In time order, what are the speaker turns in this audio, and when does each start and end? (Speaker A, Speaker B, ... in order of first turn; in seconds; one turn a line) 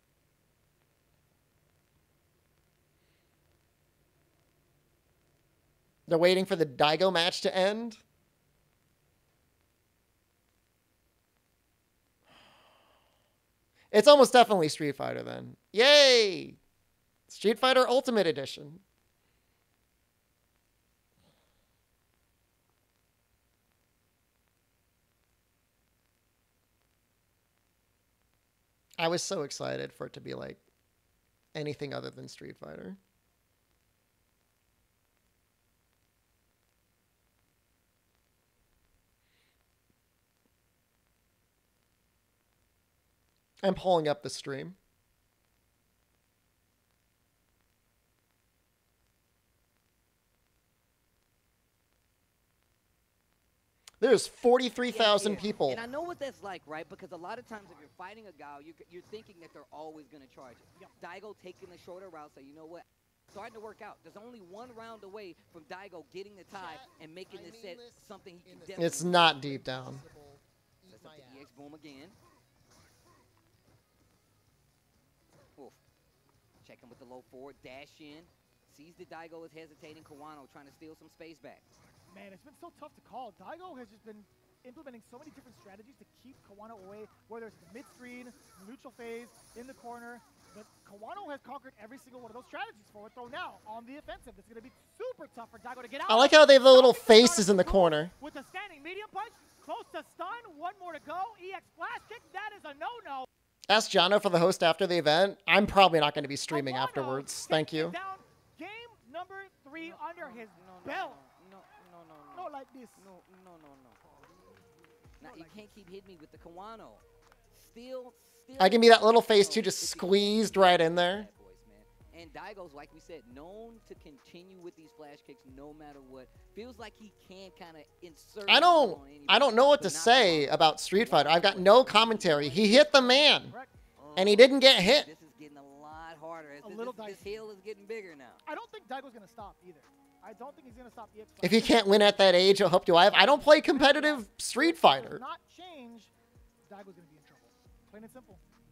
Speaker A: 6.1-8.0
Speaker A: 13.9-16.6
Speaker A: 17.3-18.8
Speaker A: 29.0-30.6
Speaker A: 31.5-33.0
Speaker A: 43.6-44.8
Speaker A: 54.0-55.8
Speaker B: 54.8-70.1
Speaker A: 66.5-71.5
Speaker B: 70.9-72.2
Speaker B: 76.6-81.7
Speaker C: 82.1-103.3
Speaker A: 96.1-98.1
Speaker A: 103.7-108.0
Speaker C: 106.5-111.2
Speaker B: 109.8-114.2
Speaker C: 112.3-113.1
Speaker C: 115.2-115.8
Speaker B: 115.2-132.8
Speaker A: 118.6-121.3
Speaker A: 128.5-133.5
Speaker C: 132.0-133.7
Speaker B: 134.0-138.4
Speaker A: 134.2-135.1
Speaker C: 136.6-137.4
Speaker C: 138.4-142.1
Speaker A: 141.4-145.2
Speaker C: 143.2-146.1
Speaker C: 146.7-148.4